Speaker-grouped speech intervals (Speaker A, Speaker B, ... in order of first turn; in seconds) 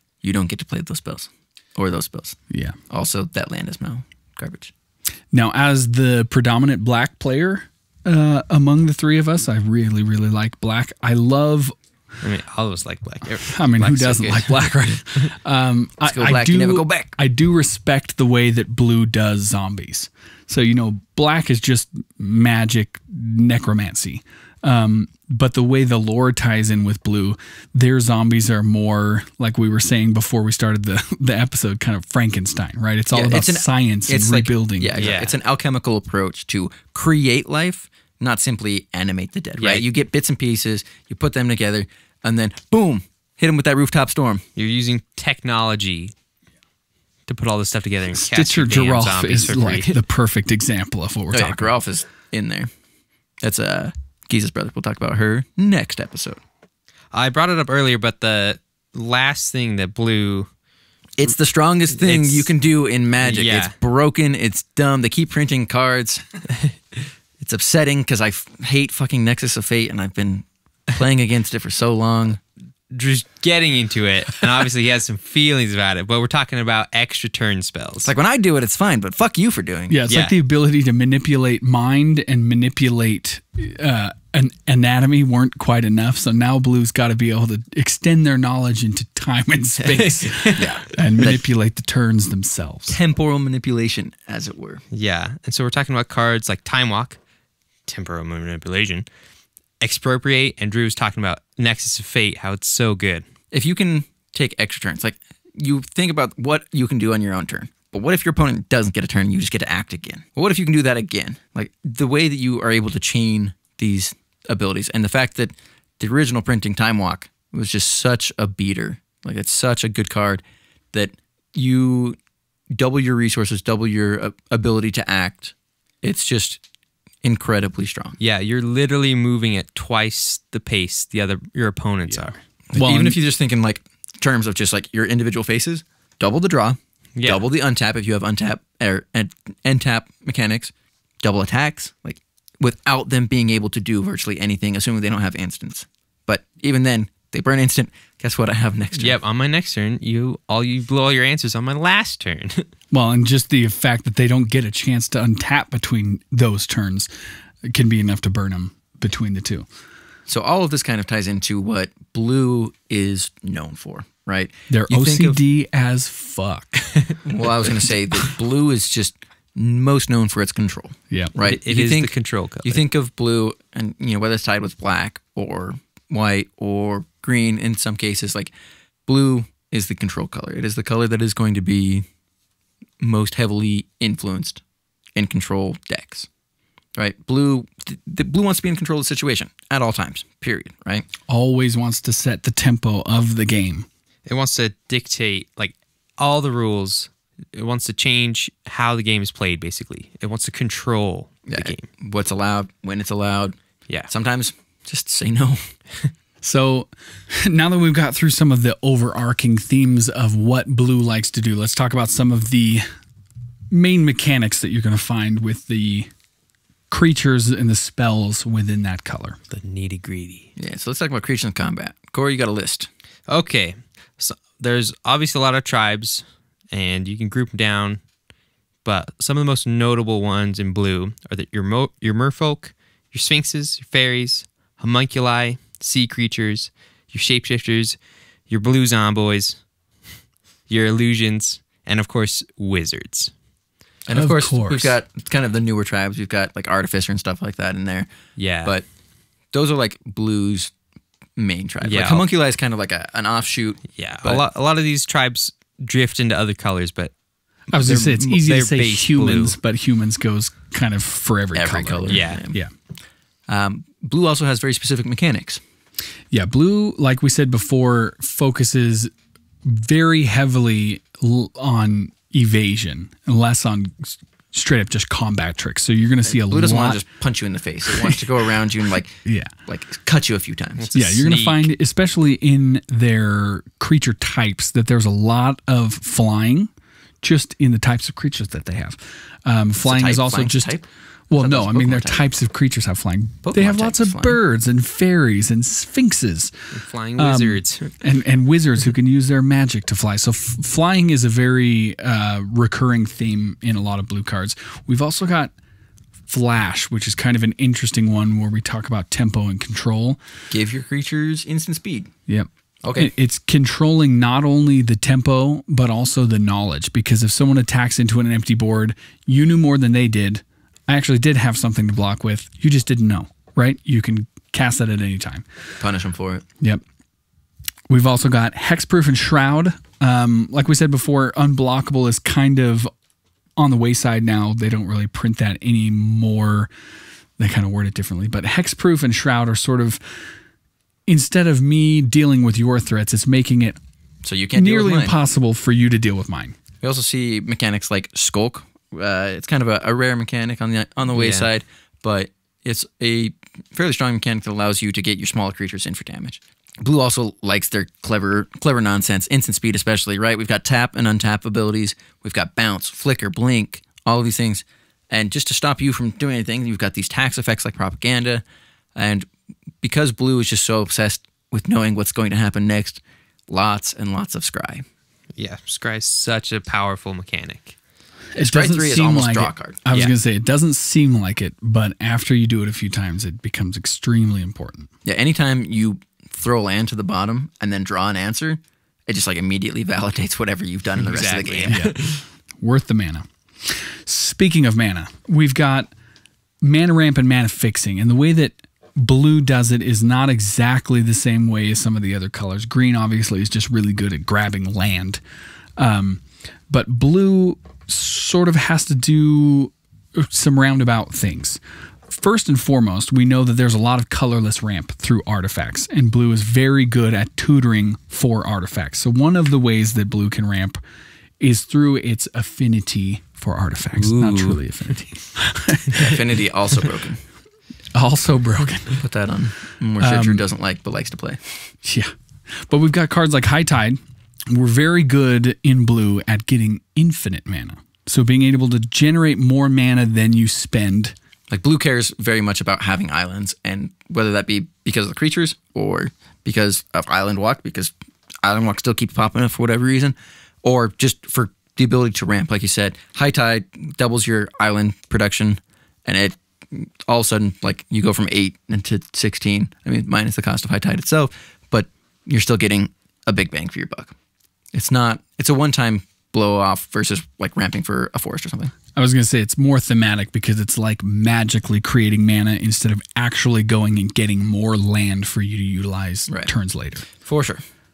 Speaker A: 0.2-2.4, 2.9-4.7, 16.0-17.1, 33.1-44.4, 51.3-52.7, 53.4-56.4, 61.2-66.2, 67.4-72.4, 78.0-80.0, 90.6-91.4, 92.9-94.8, 103.5-120.4, 120.9-122.2, 122.7-126.6, 127.2-128.2, 132.7-149.2, 160.3-165.4, 167.2-172.1, 172.6-178.5, 179.1-182.1, 183.0-184.6, 185.1-186.3, 186.9-191.1, 201.5-203.6, 204.1-205.7, 220.6-222.9, 244.1-248.1, 249.5-250.7, 251.4-254.4, 261.5-262.6, 263.5-265.6, 276.2-279.1, 279.7-280.9, 289.8-292.3, 293.4-294.4, 310.5-312.1, 312.8-313.1, 325.8-326.4, 344.2-345.1, 346.8-368.4, 368.9-369.3, 369.8-374.9, 378.3-379.8, 385.0-391.8, 425.9-427.2, 429.0-431.6, 441.5-464.1, 464.7-468.7, 477.1-477.6
Speaker B: 2.5-2.8, 5.3-11.7, 13.5-34.9, 48.1-51.7, 79.9-93.0, 132.7-133.2, 152.9-157.1, 157.6-159.7, 164.7-166.9, 167.6-167.9, 191.3-193.9, 206.4-212.9, 213.7-216.1, 216.9-219.4, 244.1-244.9, 257.7-262.7, 266.3-269.1, 269.6-277.0, 279.2-279.5, 280.9-286.7, 287.2-290.7, 291.3-296.5, 297.2-305.5, 306.3-310.2, 312.3-325.4, 327.9-332.9, 333.6-336.7, 337.4-340.0, 341.1-343.8, 344.6-346.6, 378.3-384.9, 391.7-392.0, 392.6-395.9, 396.6-405.2, 405.8-420.8, 421.4-426.2, 427.9-429.0, 430.0-430.4, 431.8-441.1, 468.9-477.1
Speaker C: 12.2-14.9, 35.0-35.4, 39.6-39.8, 44.5-46.1, 47.3-50.0, 57.1-60.5, 61.9-62.5, 63.2-63.8, 72.9-78.1, 80.1-80.3, 89.9-90.8, 94.9-97.2, 97.9-99.0, 99.8-103.2, 128.2-132.4, 137.2-137.4, 149.0-152.7, 171.4-172.8, 194.2-201.8, 219.5-220.5, 223.3-228.0, 228.8-238.0, 238.5-239.6, 240.7-243.3, 248.4-248.7, 251.8-252.2, 253.9-257.1, 257.7-259.6, 262.1-262.4, 280.8-281.7, 296.7-297.9, 351.1-351.5, 375.4-377.8, 391.0-392.2, 424.0-424.6